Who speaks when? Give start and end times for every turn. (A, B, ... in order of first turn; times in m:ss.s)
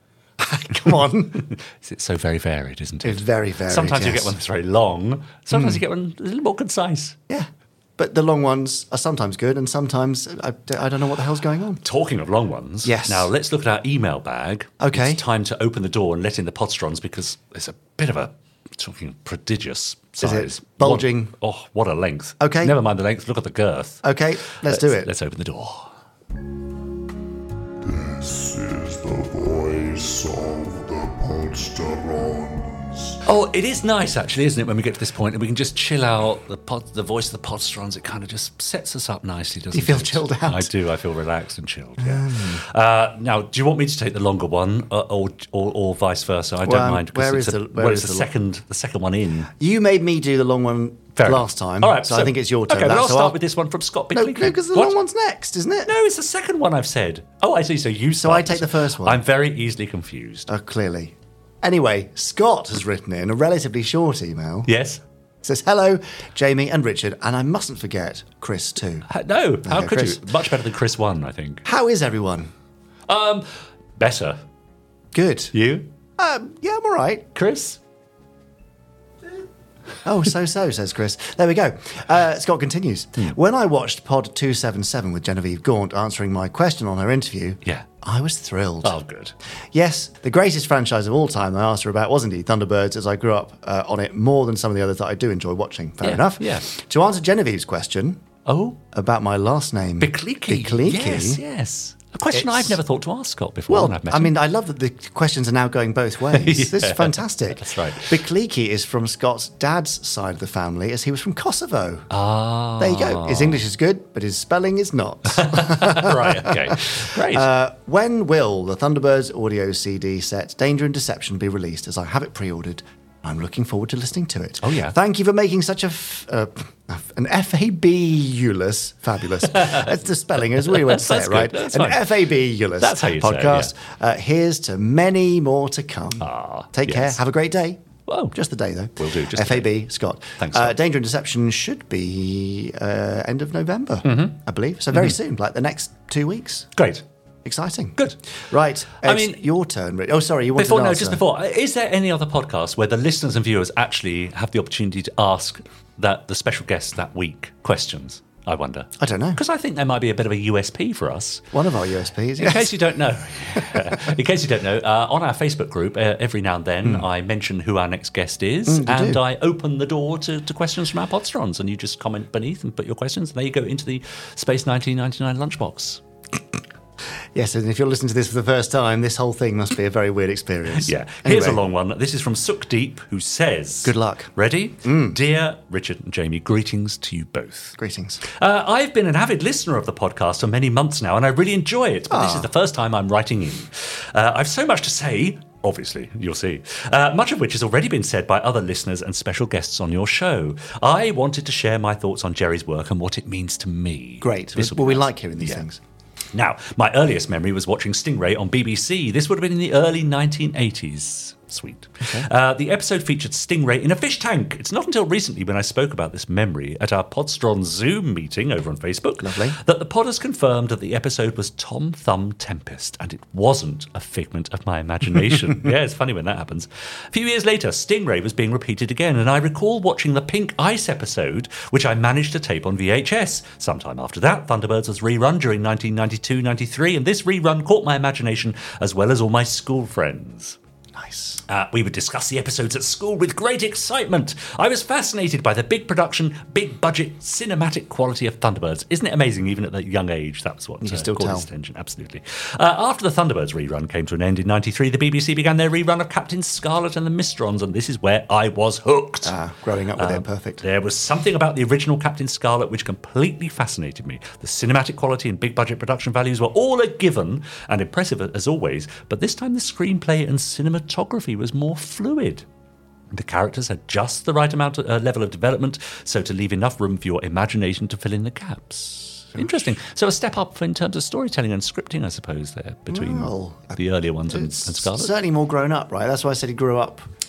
0:00.4-0:01.4 A
0:01.4-0:07.2 B
0:03.0-0:04.3 A
0:05.5-0:05.8 A
0:07.3-0:11.8 A
0:11.8-0:24.0 B
0:12.8-0:13.3 A
0:14.8-0:15.2 A
0:20.2-0:21.3 A
0:22.4-0:22.8 A
0:24.0-0:25.1 A
0:24.7-0:25.9 B
0:27.8-0:33.2 C
0:33.2-0:49.5 B
0:39.7-0:40.7 A
0:42.0-0:42.6 A
0:46.6-0:48.3 A
0:49.5-0:53.4 A
0:51.2-0:55.0 B
0:54.1-0:55.9 A
0:55.9-1:00.5 B
0:58.2-0:59.2 A
1:00.5-1:04.7 A
1:04.7-1:05.0 B
1:05.4-1:09.1 A
1:09.1-1:11.6 B
1:09.6-1:10.2 A
1:11.6-1:12.5 A
1:13.1-1:13.5 B
1:14.0-1:14.4 B
1:15.1-1:15.5 A
1:15.5-1:15.9 B
1:16.2-1:17.3 A
1:17.3-1:17.8 B
1:20.0-1:29.0 A
1:28.8-1:29.4 B
1:29.7-1:38.2 A
1:36.0-1:36.7 B
1:38.5-1:38.8 B
1:38.9-1:41.4 A
1:40.0-1:44.3 B
1:42.3-1:42.8 A
1:43.7-1:52.1 A
1:46.3-1:48.2 B
1:52.1-1:53.6 B
1:52.8-2:26.7 A
1:55.3-1:57.5 B
2:04.6-2:05.0 B
2:09.5-2:09.9 B
2:10.6-2:12.1 B
2:12.8-2:13.7 B
2:16.2-2:17.2 B
2:18.1-2:18.4 B
2:19.0-2:19.8 B
2:20.4-2:20.8 B
2:24.0-2:24.4 B
2:26.8-2:27.0 B
2:27.4-2:28.0 A
2:28.5-2:31.2 A
2:29.0-2:29.4 B
2:30.6-2:41.5 B
2:39.0-2:39.4 A
2:41.5-2:42.8 A
2:42.4-2:56.0 B
2:43.6-2:44.0 A
2:48.7-2:49.2 A
2:57.4-3:01.6 A
3:00.7-3:25.6 B
3:03.8-3:04.3 A
3:04.8-3:05.2 A
3:07.8-3:08.2 A
3:12.1-3:12.5 A
3:24.2-3:25.8 A
3:26.3-4:00.6 B
3:32.0-3:32.3 A
3:39.2-3:39.6 A
4:01.0-4:01.4 A
4:01.5-4:19.3 B
4:10.8-4:11.5 A
4:19.2-4:20.6 A
4:20.0-4:32.5 B
4:33.1-4:45.1 B
4:39.4-4:39.6 A
4:42.9-4:47.1 A